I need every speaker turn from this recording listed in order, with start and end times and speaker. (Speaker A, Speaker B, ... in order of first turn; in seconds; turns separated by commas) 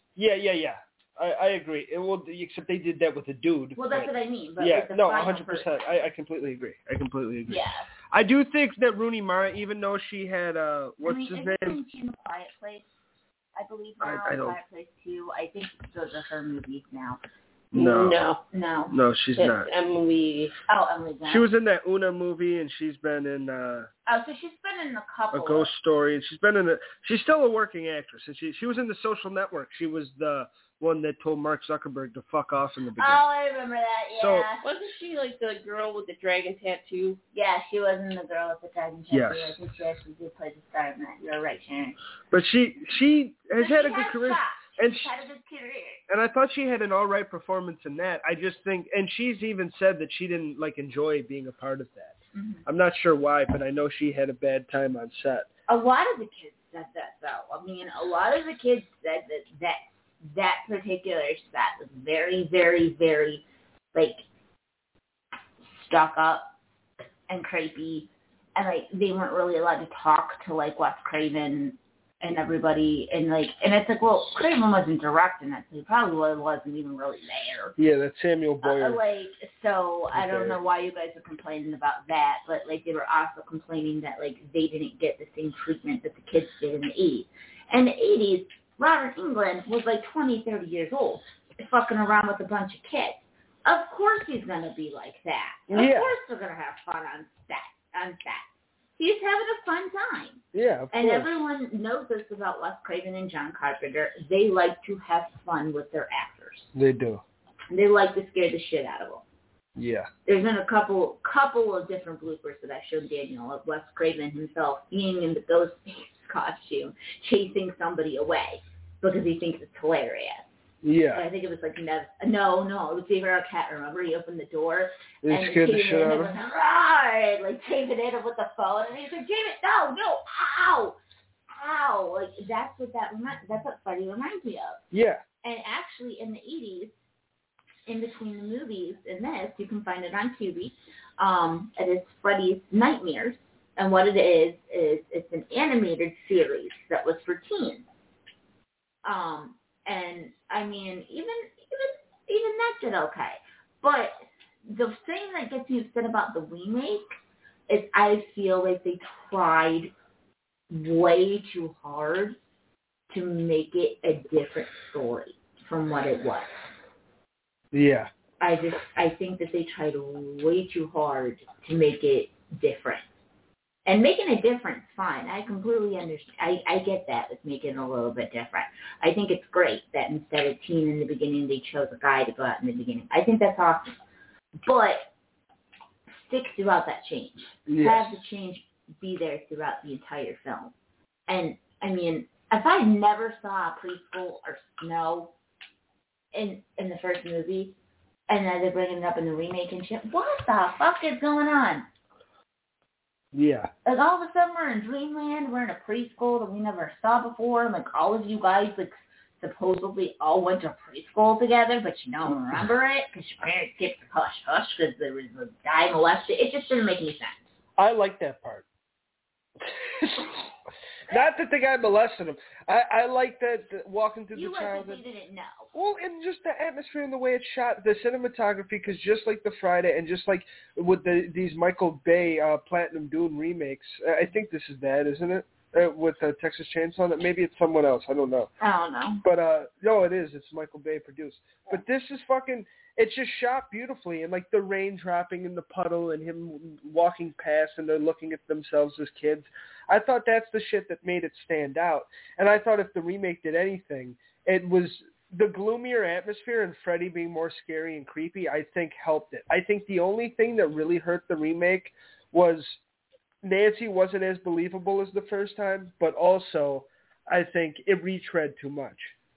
Speaker A: 0.2-11.8, Speaker B: 3.8-6.0, Speaker B: 7.5-7.9, Speaker B: 11.0-12.8, Speaker B: 13.6-17.2, Speaker A: 14.0-14.6, Speaker A: 17.7-18.2, Speaker C: 17.7-18.4, Speaker B: 18.5-18.9, Speaker A: 18.9-19.7, Speaker C: 19.4-20.6, Speaker B: 20.7-21.5, Speaker A: 21.3-23.9, Speaker B: 24.1-25.7, Speaker A: 25.3-33.2, Speaker B: 33.0-34.6, Speaker A: 34.2-34.5, Speaker C: 34.6-37.2, Speaker B: 37.3-42.0, Speaker A: 39.1-39.6, Speaker A: 42.3-45.1, Speaker B: 43.6-46.0, Speaker A: 46.1-55.5, Speaker B: 52.3-52.6, Speaker B: 55.7-64.2, Speaker B: 65.7-66.5, Speaker B: 67.3-77.8, Speaker A: 77.8-79.0, Speaker B: 78.6-106.7, Speaker A: 80.1-80.6, Speaker A: 95.7-96.1, Speaker A: 100.5-101.3, Speaker A: 106.8-107.2, Speaker B: 107.7-109.2, Speaker A: 109.8-110.1, Speaker B: 110.3-131.0, Speaker A: 120.8-121.2, Speaker A: 125.2-126.3, Speaker B: 131.5-134.8, Speaker A: 134.9-135.2, Speaker B: 135.4-137.0, Speaker B: 137.9-147.8, Speaker B: 149.0-157.1, Speaker B: 157.7-159.9, Speaker B: 160.7-162.4, Speaker B: 163.1-166.5, Speaker A: 167.7-168.1, Speaker B: 168.4-173.1, Speaker B: 173.9-184.0, Speaker B: 184.6-185.1, Speaker B: 186.1-190.7, Speaker A: 187.7-188.2, Speaker B: 191.3-195.3, Speaker B: 196.3-197.8, Speaker B: 198.3-201.9, Speaker A: 203.3-203.7, Speaker B: 203.8-217.5, Speaker A: 217.8-218.7, Speaker A: 219.6-220.5, Speaker A: 221.1-225.0, Speaker B: 224.3-225.7, Speaker A: 225.7-238.5, Speaker B: 238.6-239.2, Speaker A: 239.2-262.8, Speaker A: 263.4-269.1